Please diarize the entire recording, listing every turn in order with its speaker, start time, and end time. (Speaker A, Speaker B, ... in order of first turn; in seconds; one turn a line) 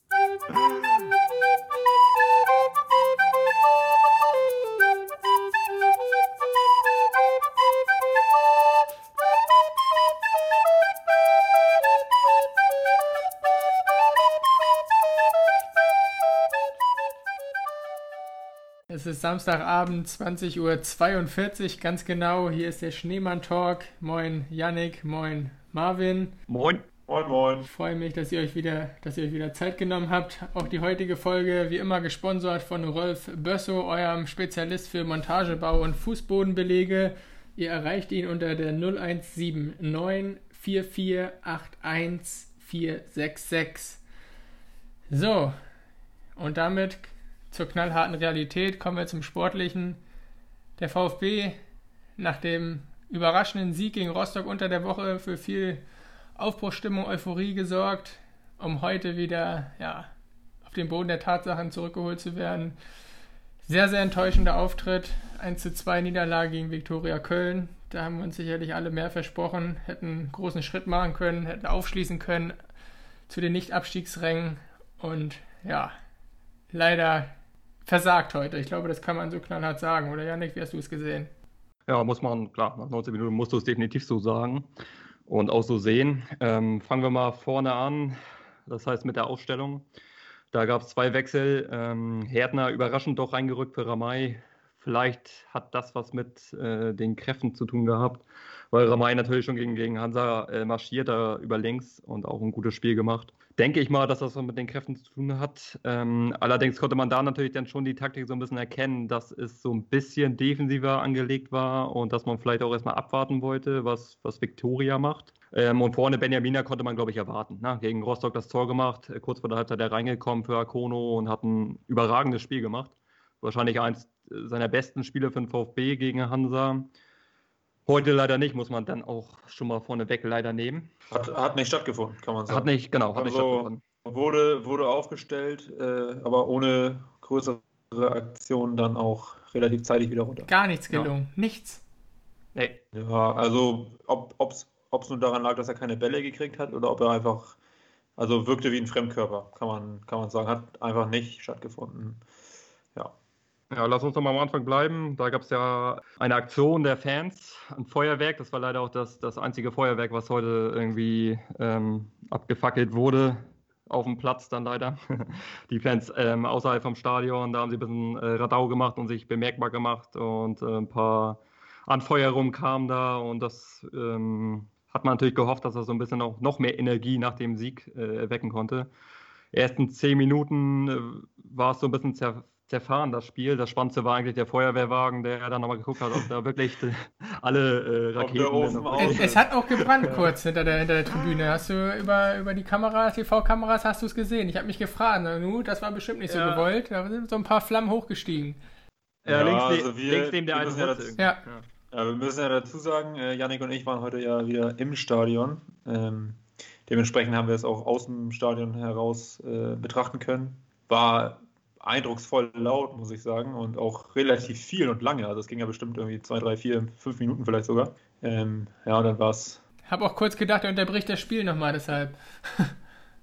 Speaker A: 0.5-0.9
Speaker B: 18.9-26.3
Speaker A: 26.5-26.9
Speaker C: 27.1-27.7
Speaker B: 27.7-44.0
Speaker B: 45.1-45.5
Speaker B: 46.4-50.0
Speaker B: 50.8-51.5
Speaker B: 52.2-55.8
Speaker B: 56.4-60.1
Speaker B: 60.6-62.8
Speaker B: 63.6-72.6
Speaker B: 73.3-75.9
Speaker B: 76.7-77.3
Speaker B: 77.9-81.3
Speaker A: 81.9-84.7
Speaker A: 85.3-89.8
Speaker A: 90.5-126.9
Speaker A: 127.9-130.9
Speaker C: 131.1-140.5
Speaker A: 132.5-133.8
Speaker B: 140.5-141.8
Speaker A: 142.6-142.8
Speaker C: 142.9-147.6
Speaker C: 148.2-152.2
Speaker A: 153.7-178.9
Speaker A: 179.5-190.3
Speaker C: 188.2-189.5
Speaker B: 189.0-198.6
Speaker A: 196.3-196.7
Speaker A: 199.2-201.7
Speaker C: 199.3-201.1
Speaker C: 201.9-219.6
Speaker B: 219.9-222.8